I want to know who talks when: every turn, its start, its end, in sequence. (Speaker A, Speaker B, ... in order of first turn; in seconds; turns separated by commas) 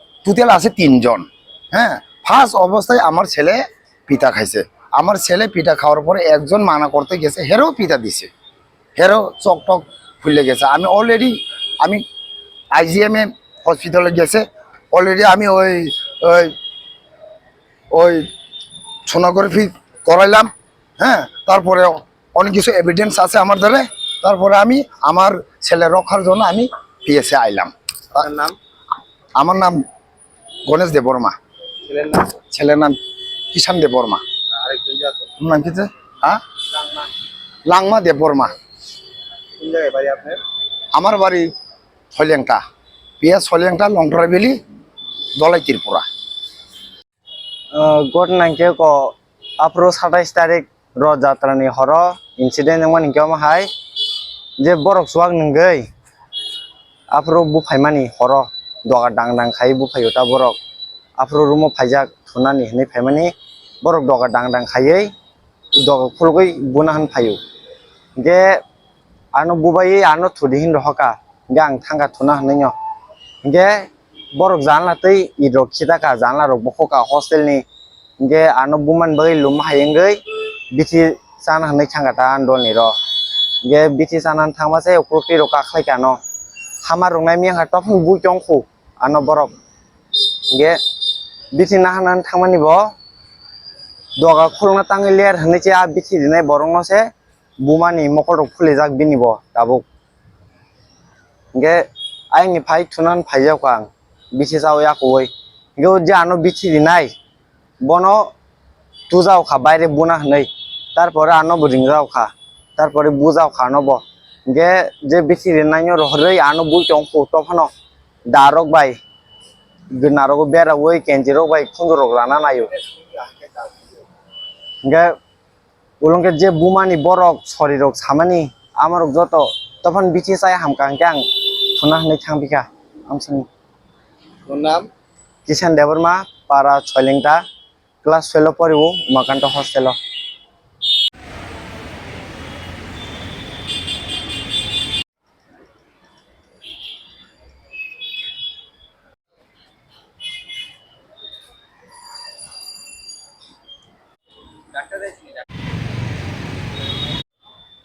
Speaker A: 0.2-8.3, Speaker A: 9.0-12.0, Speaker A: 12.7-16.5, Speaker A: 17.9-18.3, Speaker A: 19.1-28.3, Speaker B: 28.2-28.6, Speaker A: 29.4-29.8, Speaker A: 30.7-31.4, Speaker B: 31.8-32.4, Speaker A: 32.5-33.0, Speaker A: 33.5-34.2, Speaker B: 34.5-35.3, Speaker A: 35.4-36.4, Speaker A: 37.7-38.5, Speaker B: 39.6-40.4, Speaker A: 40.9-41.5, Speaker A: 42.1-42.6, Speaker A: 43.2-44.6, Speaker A: 45.4-46.1, Speaker C: 47.7-53.7, Speaker C: 54.6-55.9, Speaker C: 57.1-60.6, Speaker C: 61.2-65.1, Speaker C: 65.8-67.4, Speaker C: 68.2-68.6, Speaker C: 69.3-72.8, Speaker C: 73.4-77.7, Speaker C: 78.2-80.2, Speaker C: 80.7-83.0, Speaker C: 83.6-86.2, Speaker C: 86.8-89.5, Speaker C: 90.5-90.8, Speaker C: 91.5-92.9, Speaker C: 94.2-97.1, Speaker C: 97.6-99.8, Speaker C: 101.5-107.1, Speaker C: 107.8-108.3, Speaker C: 109.1-117.7, Speaker C: 118.3-119.0, Speaker C: 119.9-122.8, Speaker C: 124.8-125.1, Speaker C: 126.0-133.5, Speaker B: 134.5-134.9, Speaker C: 135.5-137.4, Speaker C: 138.0-140.0